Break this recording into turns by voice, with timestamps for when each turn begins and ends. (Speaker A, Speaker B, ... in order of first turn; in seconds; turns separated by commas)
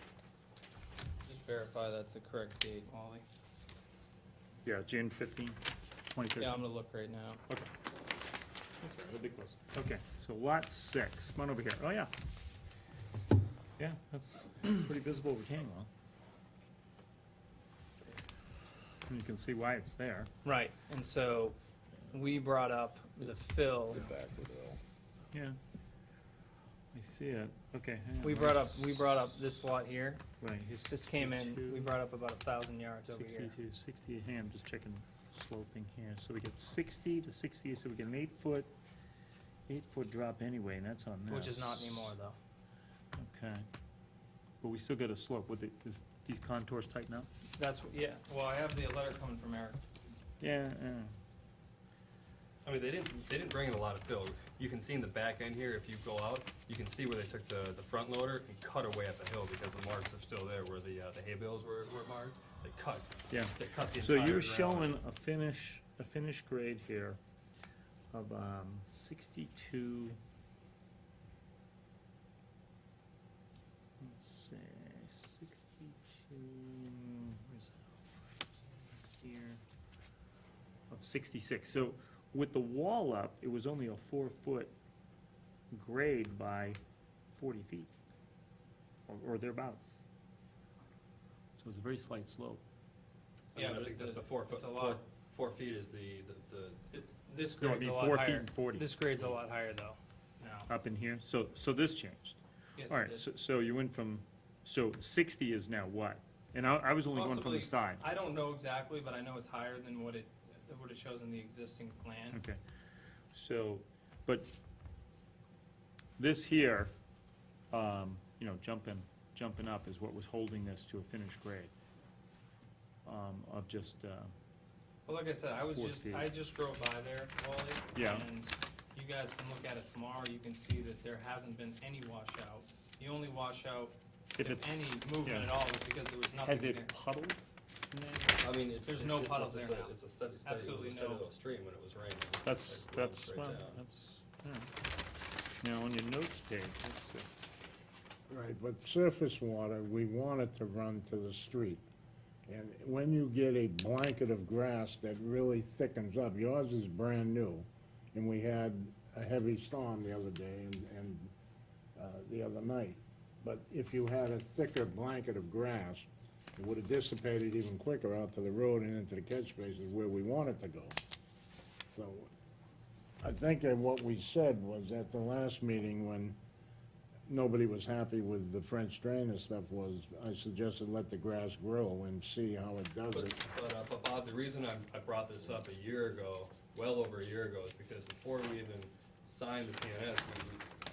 Speaker A: 1.2-3.2, Speaker B: 4.7-5.6, Speaker B: 6.1-6.7, Speaker A: 6.4-7.4, Speaker B: 8.8-12.1, Speaker B: 13.8-15.9, Speaker B: 19.1-20.3, Speaker A: 20.4-21.6, Speaker A: 22.1-24.1, Speaker B: 26.9-28.9, Speaker A: 28.2-30.2, Speaker B: 30.4-31.9, Speaker A: 30.8-33.5, Speaker B: 33.1-38.7, Speaker B: 39.7-42.1, Speaker A: 41.3-42.4, Speaker B: 43.2-43.7, Speaker B: 44.6-47.3, Speaker A: 47.6-49.8, Speaker B: 50.4-51.1, Speaker C: 52.6-64.9, Speaker B: 63.3-67.2, Speaker B: 68.1-70.2, Speaker B: 74.0-79.6, Speaker B: 80.9-84.7, Speaker B: 85.7-86.8, Speaker B: 87.3-87.9, Speaker B: 89.1-90.0, Speaker B: 91.6-92.6, Speaker A: 93.5-95.0, Speaker C: 93.5-97.1, Speaker A: 97.2-100.7, Speaker B: 97.6-99.3, Speaker B: 100.7-108.0, Speaker A: 102.8-103.3, Speaker A: 107.1-112.4, Speaker B: 112.3-112.6, Speaker B: 113.3-114.5, Speaker B: 116.2-116.9, Speaker B: 117.7-121.7, Speaker B: 123.0-124.3, Speaker A: 125.1-137.0, Speaker B: 125.7-126.3, Speaker B: 127.9-128.3, Speaker B: 134.4-135.5, Speaker B: 136.4-138.4, Speaker C: 138.4-143.8, Speaker A: 138.8-141.3, Speaker B: 142.4-144.7, Speaker B: 145.6-147.3, Speaker D: 148.3-151.8, Speaker D: 152.5-161.3, Speaker D: 162.0-171.0, Speaker D: 171.9-172.3, Speaker D: 173.2-176.4, Speaker D: 177.3-183.3, Speaker C: 183.1-190.7